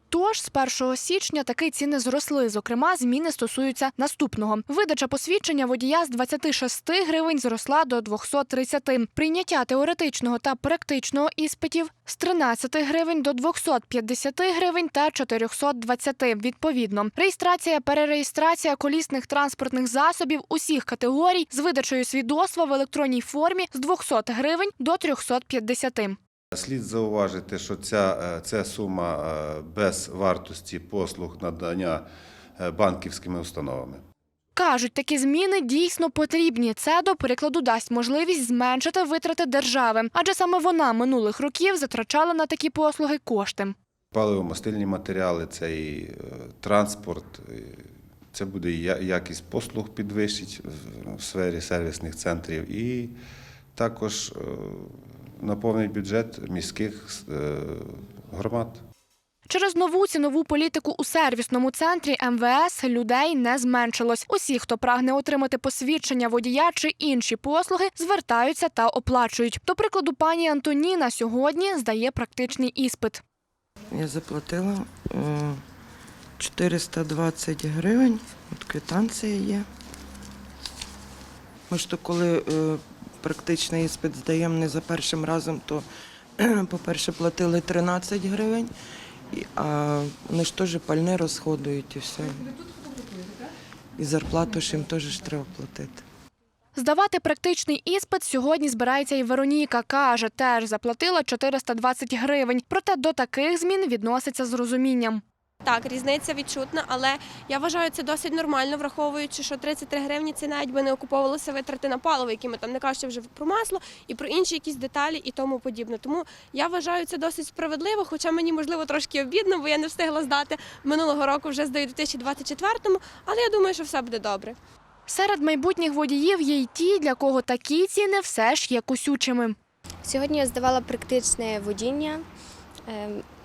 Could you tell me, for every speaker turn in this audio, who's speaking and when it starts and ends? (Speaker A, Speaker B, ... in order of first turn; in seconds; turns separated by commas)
Speaker A: 0.1-26.2, Speaker B: 26.5-32.0, Speaker B: 32.6-34.0, Speaker A: 34.5-43.7, Speaker B: 44.1-53.1, Speaker B: 53.7-58.8, Speaker A: 59.5-73.2, Speaker C: 73.9-75.6, Speaker C: 76.4-79.7, Speaker C: 81.7-85.8, Speaker C: 86.4-88.7, Speaker C: 89.3-92.6, Speaker C: 94.0-96.0, Speaker A: 96.7-105.2, Speaker D: 105.6-124.6, Speaker A: 125.1-129.6, Speaker E: 130.0-132.2, Speaker E: 132.8-133.2